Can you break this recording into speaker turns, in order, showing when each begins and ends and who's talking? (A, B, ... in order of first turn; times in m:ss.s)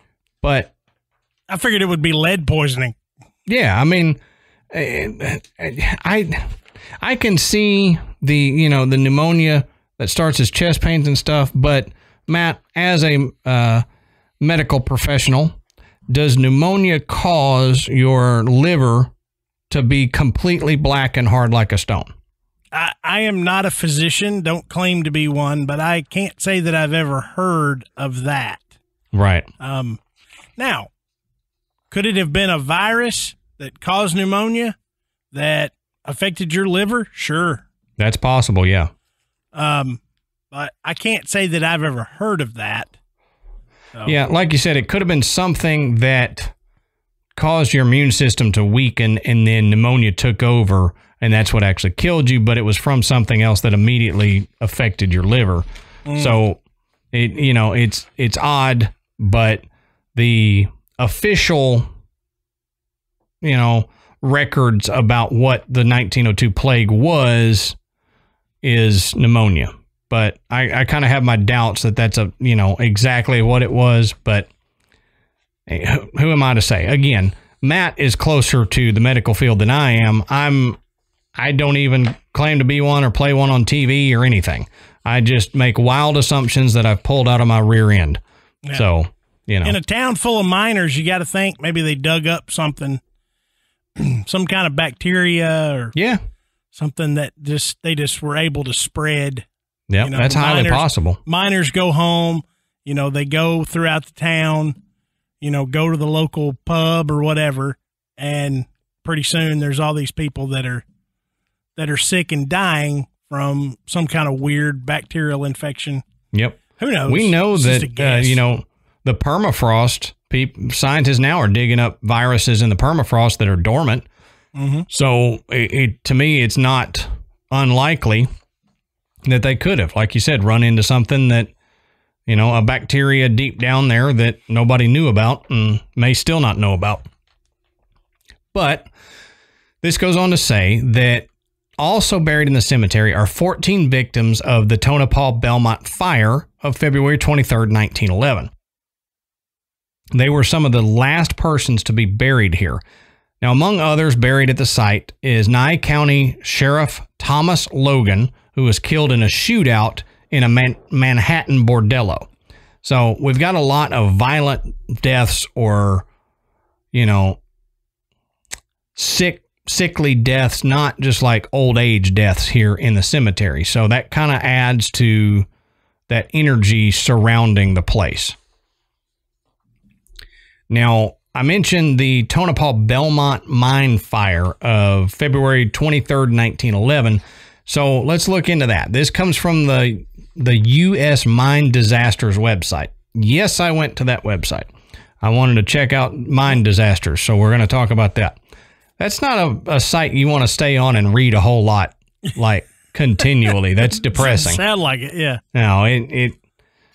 0:00.4-0:00.7 A
0:01.5-0:03.0 B
0:03.4-0:04.2 A
0:04.7-0:06.5 A
0:07.0-0:13.8 A
0:14.4-0:19.1 A
0:19.7-0:22.1 A
0:22.7-0:28.7 B
0:29.1-0:29.5 A
0:29.6-0:30.0 B
0:30.6-0:30.9 B
0:31.9-0:34.7 B
0:35.3-0:37.6 B
0:38.0-0:38.9 A
0:39.5-0:40.0 B
0:40.5-0:42.9 B
0:44.0-0:46.5 A
0:47.4-0:56.6 A
0:56.0-0:56.3 B
0:57.1-1:01.9 A
1:03.4-1:07.8 A
1:08.6-1:14.5 A
1:15.7-1:20.8 A
1:21.4-1:28.2 A
1:28.7-1:29.8 A
1:29.6-1:33.0 B
1:34.0-1:35.9 B
1:35.9-1:36.2 A
1:36.7-1:39.4 B
1:39.9-1:41.2 A
1:40.0-1:44.8 B
1:45.4-1:50.8 B
1:51.8-1:56.0 B
1:56.3-2:04.0 A
1:56.8-1:58.4 B
2:04.5-2:04.9 B
2:04.9-2:08.3 A
2:09.2-2:11.5 A
2:12.3-2:17.0 A
2:18.5-2:18.9 A
2:19.8-2:28.5 A
2:30.1-2:32.8 A
2:33.4-2:42.3 A
2:42.8-2:46.0 A
2:46.9-2:47.4 A
2:49.0-2:55.5 A
2:56.1-2:58.4 A
3:00.7-3:14.7 A
3:15.2-3:18.4 A
3:19.0-3:24.6 A
3:24.0-3:25.4 B
3:25.5-3:26.4 A